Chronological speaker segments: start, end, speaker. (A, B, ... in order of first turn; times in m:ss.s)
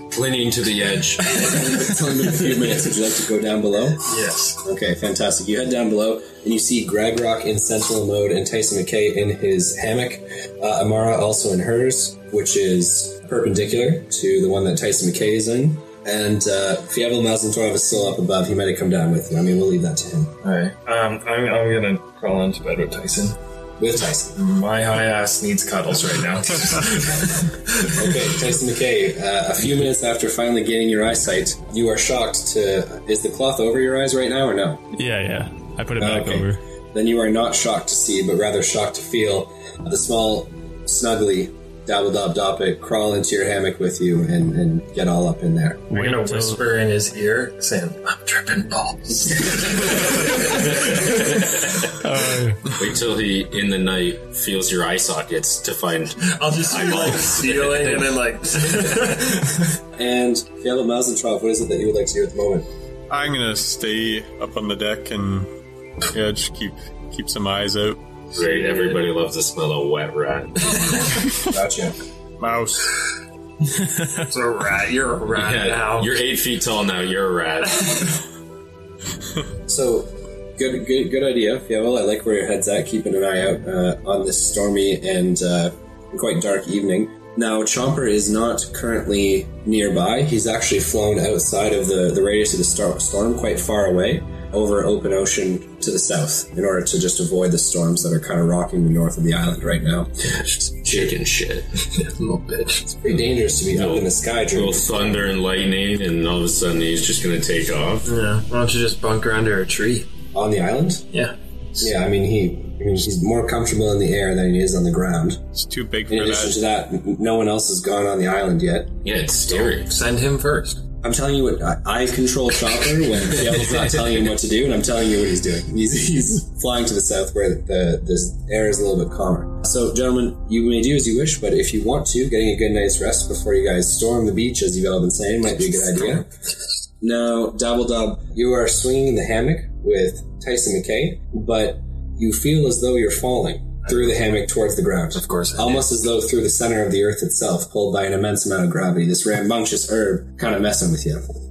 0:00.1-0:01.4 A
0:01.3-0:20.4 B
0:01.3-0:01.6 C
0:04.0-0:04.6 C
0:20.4-0:23.4 C
0:23.8-0:24.4 B
0:24.4-0:28.0 C
0:27.8-0:34.9 B
0:35.0-0:36.6 D
0:36.0-0:45.9 B
0:45.9-0:51.6 C
0:45.9-0:46.6 D
0:50.5-0:51.9 A
0:52.0-0:52.6 D
0:52.7-0:58.1 A
0:56.2-0:59.8 C
1:00.0-1:02.7 B
1:03.1-1:05.5 E
1:06.1-1:08.0 E
1:08.4-1:11.1 A
1:08.4-1:09.0 C
1:11.5-1:12.0 B
1:12.4-1:12.9 E
1:14.2-1:16.2 C
1:15.3-1:18.2 A
1:19.7-1:40.3 B
1:40.3-1:41.8 A
1:40.9-1:41.1 B
1:41.9-1:43.0 C
1:43.0-1:45.3 B
1:43.7-1:48.1 A
1:48.0-1:50.1 C
1:50.3-1:51.1 B
1:51.1-1:51.9 C
1:51.8-1:55.4 B
1:55.6-1:56.6 E
1:56.1-1:59.0 B
1:59.0-2:00.0 A
1:59.5-2:00.8 C
2:01.0-2:16.3 B
2:17.0-2:31.3 B
2:25.1-2:25.9 C